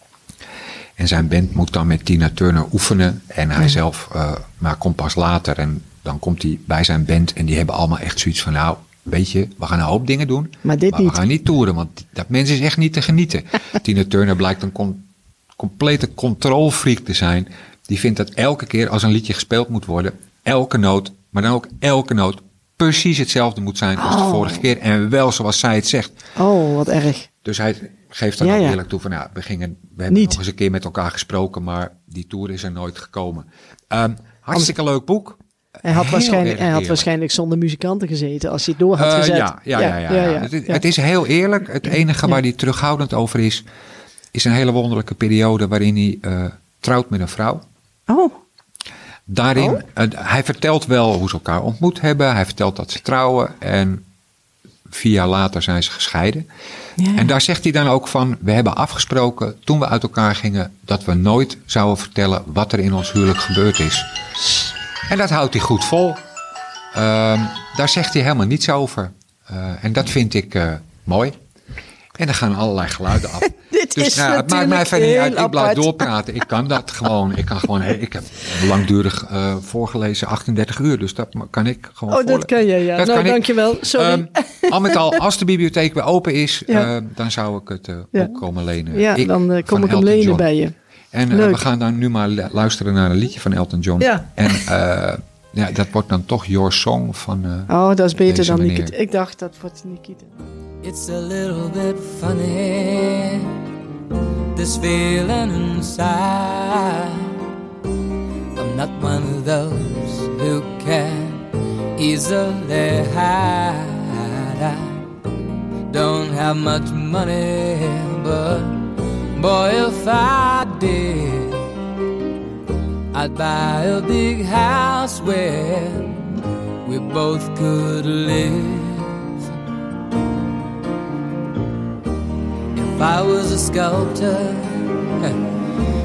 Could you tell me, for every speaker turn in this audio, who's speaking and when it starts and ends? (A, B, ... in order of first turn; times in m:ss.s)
0:01.0-0:26.2 A
0:10.6-0:11.2 B
0:24.0-0:24.7 B
0:26.4-0:27.3 B
0:27.4-0:37.1 A
0:28.4-0:28.8 B
0:30.1-0:30.4 B
0:35.8-0:40.8 B
0:39.0-0:43.6 A
0:44.3-0:47.6 A
0:48.1-0:48.3 B
0:49.3-0:54.0 A
0:49.6-0:49.8 B
0:54.9-0:56.4 A
0:57.0-0:57.3 B
0:57.1-1:04.1 A
1:05.1-1:06.2 A
1:06.9-1:11.4 A
1:12.2-1:30.5 A
1:13.6-1:16.1 B
1:22.1-1:25.2 B
1:28.1-1:28.4 B
1:28.9-1:30.7 B
1:31.1-1:37.7 A
1:31.3-1:31.6 B
1:34.0-1:34.7 B
1:37.7-1:40.3 B
1:38.3-1:38.9 A
1:40.8-1:43.5 C
1:44.5-1:47.3 C
1:48.6-1:55.1 C
1:55.9-2:01.8 C
2:03.1-2:09.4 C
2:12.7-2:15.6 C